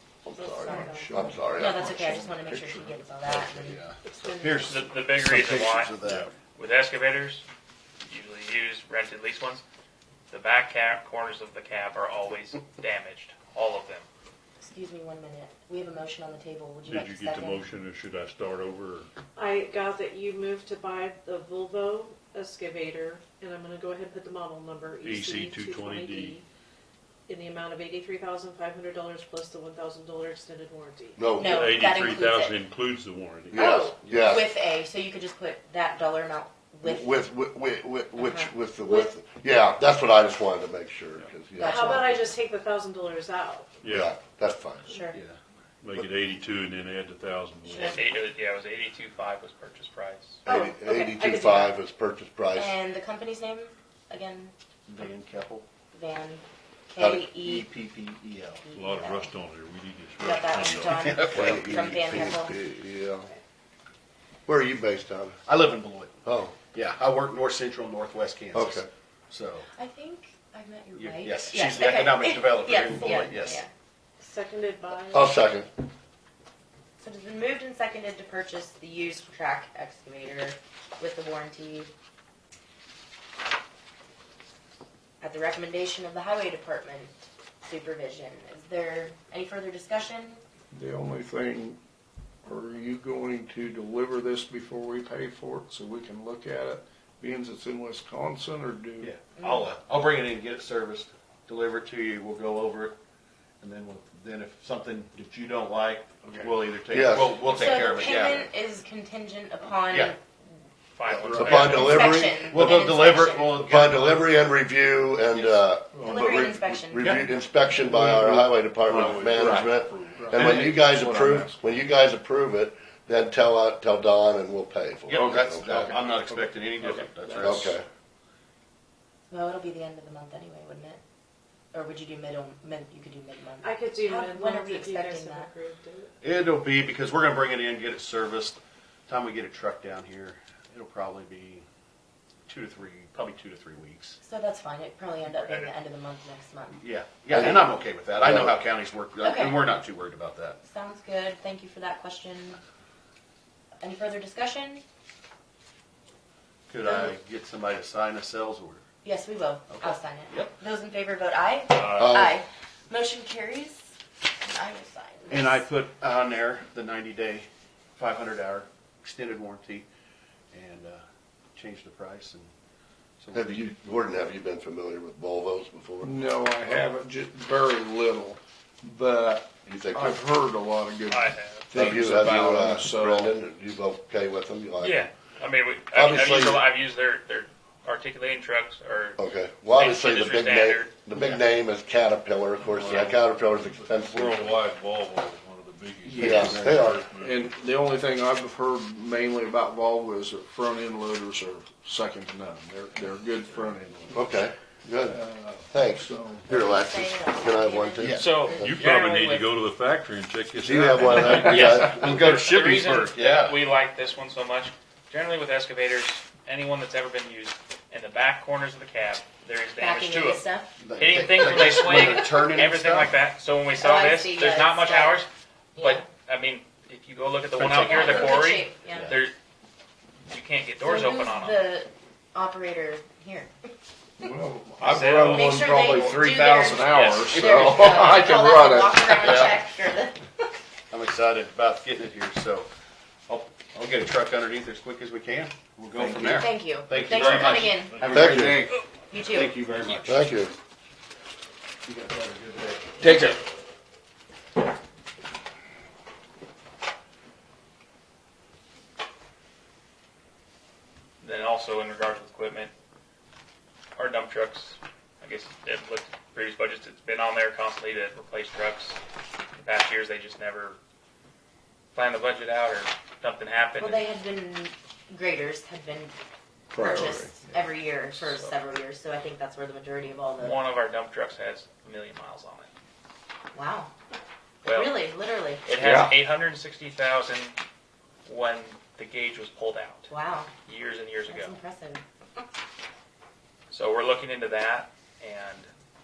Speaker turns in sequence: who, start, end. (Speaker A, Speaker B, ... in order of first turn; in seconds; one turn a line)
Speaker A: 0.2-1.9
Speaker B: 0.3-3.8
Speaker C: 0.8-3.6
Speaker D: 3.6-6.3
Speaker E: 4.0-4.8
Speaker F: 4.7-6.0
Speaker F: 6.5-7.5
Speaker F: 8.0-9.6
Speaker F: 10.3-14.1
Speaker B: 14.6-17.6
Speaker G: 16.9-19.1
Speaker E: 19.4-26.4
Speaker G: 25.0-26.4
Speaker E: 27.3-31.3
Speaker A: 31.2-31.7
Speaker B: 31.4-32.6
Speaker G: 31.4-33.8
Speaker A: 33.5-34.5
Speaker E: 33.5-34.0
Speaker D: 34.0-34.4
Speaker B: 34.2-37.1
Speaker A: 36.8-42.3
Speaker B: 38.2-39.1
Speaker B: 41.6-42.1
Speaker E: 41.6-43.7
Speaker G: 43.8-44.1
Speaker A: 43.9-44.9
Speaker B: 44.9-45.2
Speaker G: 45.8-48.1
Speaker E: 47.7-48.0
Speaker F: 47.8-50.4
Speaker E: 50.5-51.8
Speaker A: 50.5-52.8
Speaker B: 52.5-54.5
Speaker D: 54.9-55.7
Speaker B: 55.9-57.7
Speaker A: 57.0-57.3
Speaker D: 57.3-58.6
Speaker B: 58.6-59.3
Speaker G: 58.7-62.0
Speaker B: 60.2-62.6
Speaker D: 60.7-61.6
Speaker A: 61.3-63.3
Speaker A: 64.5-65.4
Speaker D: 65.5-66.2
Speaker A: 66.2-66.5
Speaker D: 66.7-69.7
Speaker A: 68.5-68.9
Speaker B: 69.7-73.7
Speaker D: 71.0-73.6
Speaker E: 74.2-75.4
Speaker A: 75.1-75.7
Speaker B: 77.0-81.9
Speaker B: 85.2-87.1
Speaker B: 87.7-90.4
Speaker C: 90.7-91.8
Speaker C: 92.4-99.1
Speaker D: 99.0-103.0
Speaker B: 99.4-99.7
Speaker D: 103.6-108.5
Speaker C: 106.2-106.5
Speaker A: 106.9-107.4
Speaker B: 107.5-110.2
Speaker D: 109.7-110.1
Speaker F: 111.0-112.1
Speaker D: 111.1-111.9
Speaker C: 111.3-111.5
Speaker A: 111.3-112.6
Speaker B: 111.7-113.6
Speaker D: 112.5-114.5
Speaker A: 113.6-126.0
Speaker D: 115.3-115.7
Speaker C: 116.0-116.2
Speaker B: 116.0-117.2
Speaker C: 117.1-121.9
Speaker G: 118.9-120.3
Speaker D: 125.1-127.8
Speaker C: 126.3-127.7
Speaker A: 127.4-127.8
Speaker B: 129.3-131.0
Speaker B: 131.7-135.5
Speaker E: 133.6-136.1
Speaker D: 136.2-141.7
Speaker D: 142.5-144.2
Speaker B: 144.2-146.8
Speaker F: 145.2-145.7
Speaker D: 146.7-150.6
Speaker A: 147.3-147.6
Speaker A: 148.2-148.6
Speaker B: 149.2-149.6
Speaker B: 150.6-152.6
Speaker B: 153.8-154.8
Speaker D: 156.7-158.8
Speaker B: 156.8-157.1
Speaker B: 159.0-163.9
Speaker D: 159.7-160.6
Speaker F: 161.7-162.1
Speaker A: 161.9-162.4
Speaker B: 164.4-165.6
Speaker D: 165.3-169.9
Speaker D: 170.5-171.0
Speaker D: 171.6-172.5
Speaker D: 173.2-173.7
Speaker A: 173.3-176.2
Speaker C: 176.0-183.4
Speaker A: 179.7-180.2
Speaker F: 181.1-181.9
Speaker A: 181.7-185.1
Speaker F: 184.8-190.9
Speaker A: 185.9-186.7
Speaker A: 189.2-194.5
Speaker D: 191.1-191.4
Speaker G: 192.6-197.5
Speaker A: 196.2-197.1
Speaker D: 196.2-196.9
Speaker C: 197.2-204.4
Speaker A: 204.1-205.2
Speaker C: 205.0-206.5
Speaker A: 205.7-208.8
Speaker B: 206.5-208.8
Speaker D: 208.0-208.4
Speaker F: 208.2-209.5
Speaker G: 208.4-211.7
Speaker A: 210.6-212.0
Speaker D: 211.3-213.6
Speaker F: 211.4-220.4
Speaker B: 219.8-220.7
Speaker D: 220.8-223.2
Speaker F: 221.0-229.3
Speaker B: 223.8-225.2
Speaker B: 225.8-226.1
Speaker D: 227.6-229.2
Speaker B: 227.8-229.2
Speaker F: 230.3-231.7
Speaker B: 230.8-233.5
Speaker C: 234.2-239.6
Speaker F: 234.8-235.9
Speaker B: 235.3-240.2
Speaker F: 236.8-237.4
Speaker D: 237.3-238.1
Speaker D: 239.2-239.5
Speaker D: 240.9-242.7
Speaker D: 243.3-250.3
Speaker C: 246.0-246.4
Speaker B: 246.3-248.0
Speaker C: 248.1-248.5
Speaker A: 248.1-248.7
Speaker B: 249.1-249.6
Speaker A: 250.0-250.5
Speaker D: 251.8-253.0
Speaker C: 253.0-253.4
Speaker F: 261.2-262.7
Speaker F: 264.0-269.0
Speaker F: 269.6-270.8
Speaker F: 271.9-274.1
Speaker B: 273.8-276.1
Speaker C: 276.7-277.3
Speaker B: 276.8-280.6
Speaker F: 278.1-278.5
Speaker F: 280.4-282.7
Speaker B: 283.5-283.9
Speaker F: 284.6-285.0
Speaker B: 284.6-285.6
Speaker F: 285.6-287.6
Speaker C: 285.8-286.1
Speaker F: 288.3-290.1
Speaker B: 290.1-290.5
Speaker F: 290.6-291.6
Speaker B: 291.3-292.0
Speaker F: 293.7-295.7